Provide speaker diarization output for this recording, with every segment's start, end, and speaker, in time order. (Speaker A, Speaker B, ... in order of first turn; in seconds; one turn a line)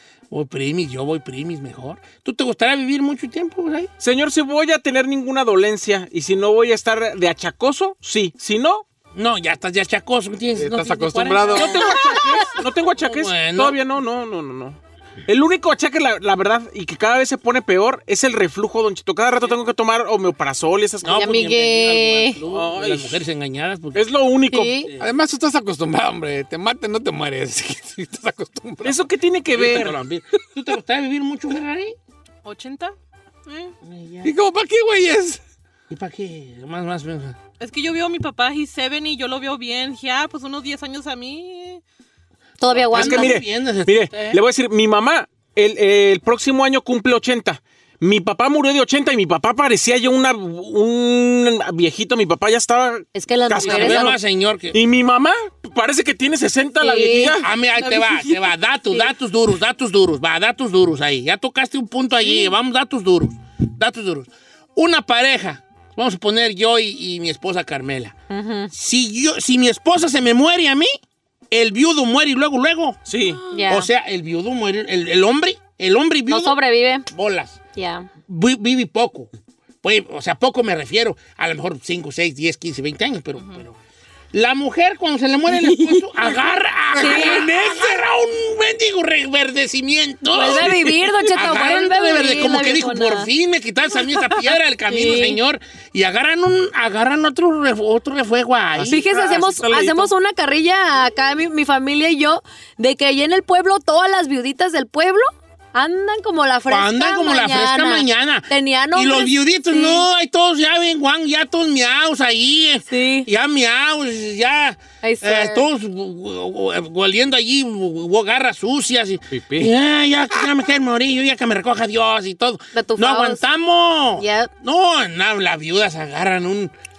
Speaker A: 0.3-3.9
Speaker B: 4.0-8.8
Speaker A: 9.2-13.8
Speaker C: 10.6-11.9
Speaker B: 11.5-21.4
Speaker A: 21.0-24.1
Speaker D: 21.1-22.4
Speaker B: 22.5-23.2
Speaker B: 23.9-24.8
Speaker D: 24.5-24.9
Speaker A: 24.8-25.2
Speaker C: 25.0-29.1
Speaker B: 28.8-29.9
Speaker A: 29.5-32.0
Speaker E: 32.4-33.0
Speaker E: 33.5-33.7
Speaker A: 33.9-34.3
Speaker C: 34.2-35.4
Speaker A: 35.9-37.4
Speaker E: 37.6-41.8
Speaker D: 42.6-43.4
Speaker A: 42.9-44.4
Speaker B: 42.9-54.2
Speaker D: 53.1-54.1
Speaker A: 53.6-54.8
Speaker B: 54.7-57.5
Speaker D: 56.8-57.4
Speaker A: 57.4-68.2
Speaker E: 57.8-58.5
Speaker D: 62.1-62.5
Speaker D: 68.3-68.7
Speaker A: 68.7-70.9
Speaker A: 71.5-73.0
Speaker B: 73.1-73.4
Speaker D: 73.5-73.9
Speaker A: 73.7-76.6
Speaker D: 76.3-77.1
Speaker A: 77.1-77.6
Speaker D: 77.8-78.1
Speaker A: 78.3-79.3
Speaker A: 79.8-83.8
Speaker A: 84.3-99.0
Speaker D: 85.5-86.0
Speaker D: 87.0-87.5
Speaker C: 87.0-88.0
Speaker D: 90.3-93.3
Speaker D: 94.9-95.4
Speaker D: 98.8-110.1
Speaker B: 98.9-100.1
Speaker A: 106.7-126.7
Speaker D: 112.9-113.3
Speaker D: 115.0-115.7
Speaker C: 119.3-119.7
Speaker D: 122.8-123.4
Speaker D: 124.2-124.5